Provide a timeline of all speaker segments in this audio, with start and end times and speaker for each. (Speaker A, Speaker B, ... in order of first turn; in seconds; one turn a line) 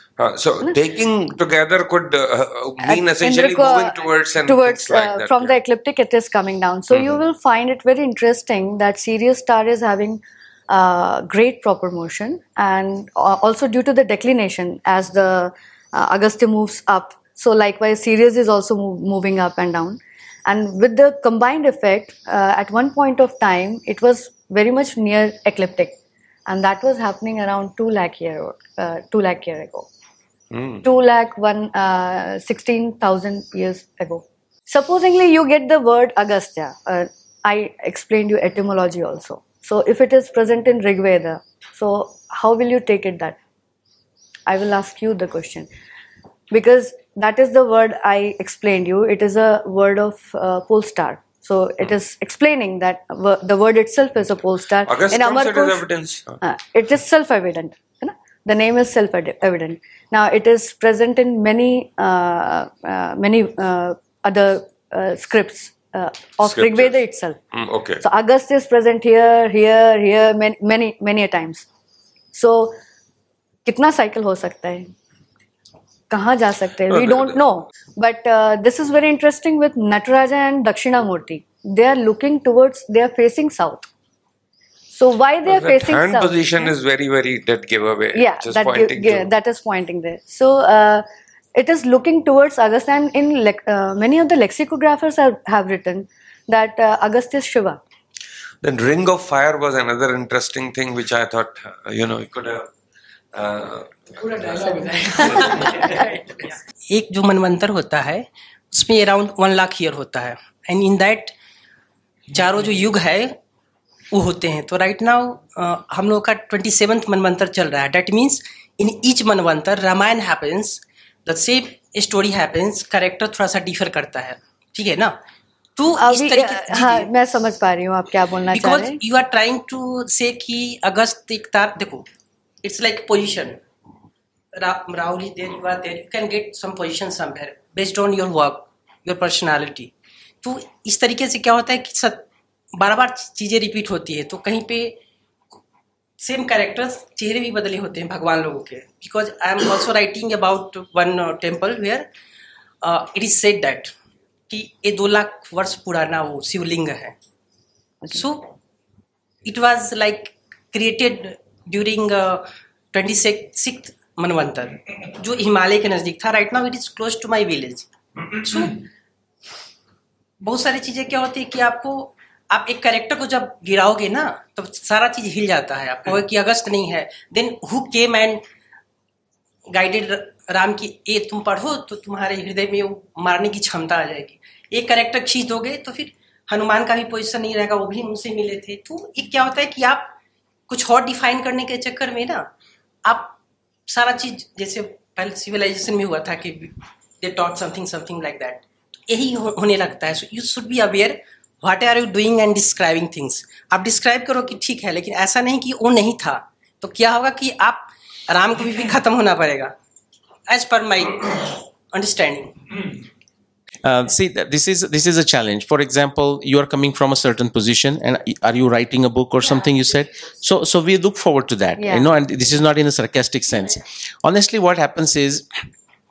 Speaker A: 0.2-5.6
Speaker B: 2.8-25.9
Speaker B: 26.5-29.9
Speaker A: 30.5-30.8
Speaker B: 30.8-43.4
Speaker B: 44.5-45.7
Speaker B: 46.5-55.8
Speaker A: 54.9-56.4
Speaker B: 56.4-67.4
Speaker A: 66.4-67.0
Speaker A: 67.5-68.0
Speaker B: 68.0-71.6
Speaker B: 72.3-72.8
Speaker B: 73.6-74.9
Speaker B: 76.1-83.9
Speaker A: 76.9-77.3
Speaker B: 84.9-86.7
Speaker A: 85.5-89.3
Speaker B: 88.1-97.8
Speaker A: 98.6-102.7
Speaker A: 103.3-104.1
Speaker C: 104.2-111.3
Speaker C: 112.3-113.4
Speaker C: 114.1-125.2
Speaker C: 125.8-127.1
Speaker B: 126.0-129.0
Speaker C: 128.5-132.1
Speaker C: 132.6-133.6
Speaker C: 134.5-145.0
Speaker C: 146.2-152.1
Speaker C: 152.8-153.9
Speaker C: 154.5-157.2
Speaker C: 158.1-158.5
Speaker C: 159.4-168.9
Speaker C: 170.4-178.4
Speaker C: 179.7-190.1
Speaker C: 190.7-192.5
Speaker C: 193.0-193.4
Speaker C: 193.9-209.7
Speaker C: 210.5-212.8
Speaker D: 213.8-225.4
Speaker B: 221.8-222.1